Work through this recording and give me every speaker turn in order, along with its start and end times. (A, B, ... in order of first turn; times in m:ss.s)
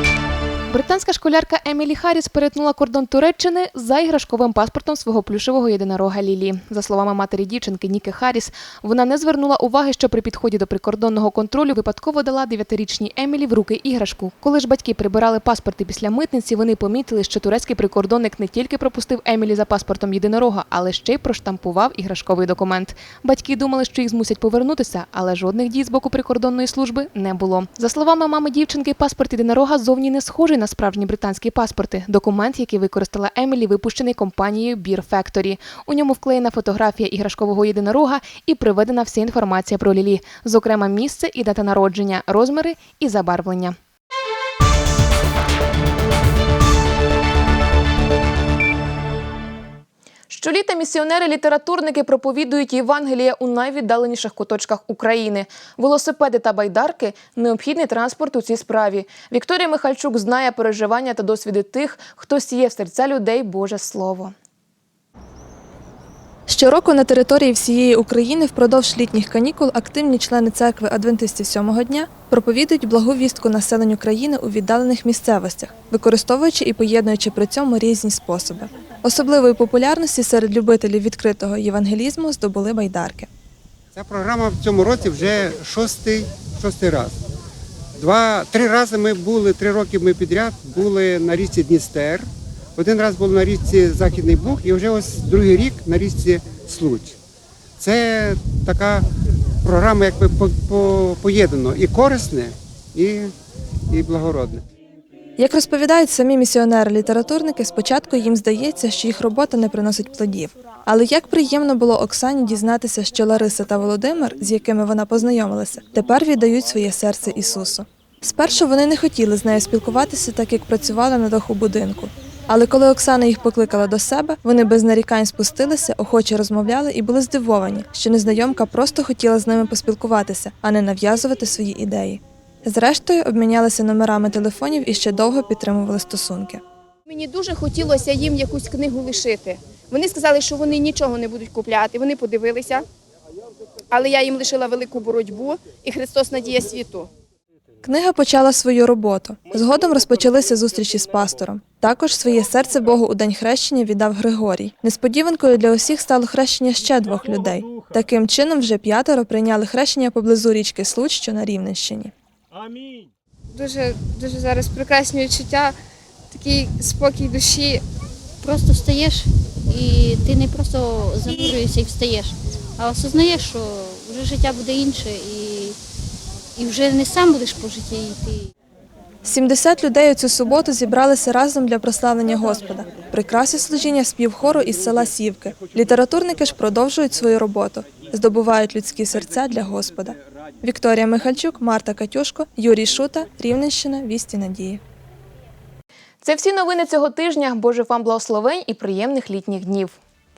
0:00.7-0:43.8 A
0:50.3-1:04.3 A
1:06.5-1:23.3 B
1:24.0-1:27.1 C
1:28.0-1:37.2 C
1:37.8-1:39.1 C
1:39.6-1:43.3 C
1:43.9-1:44.6 C
1:45.4-2:16.6 B
2:17.2-2:17.5 D
2:18.4-2:18.7 D
2:20.1-2:20.4 D
2:24.0-2:27.0 D
2:27.8-2:42.1 B
2:48.4-2:55.8 E
2:56.6-2:58.4 E
2:59.2-3:14.8 B
3:16.2-3:20.0 A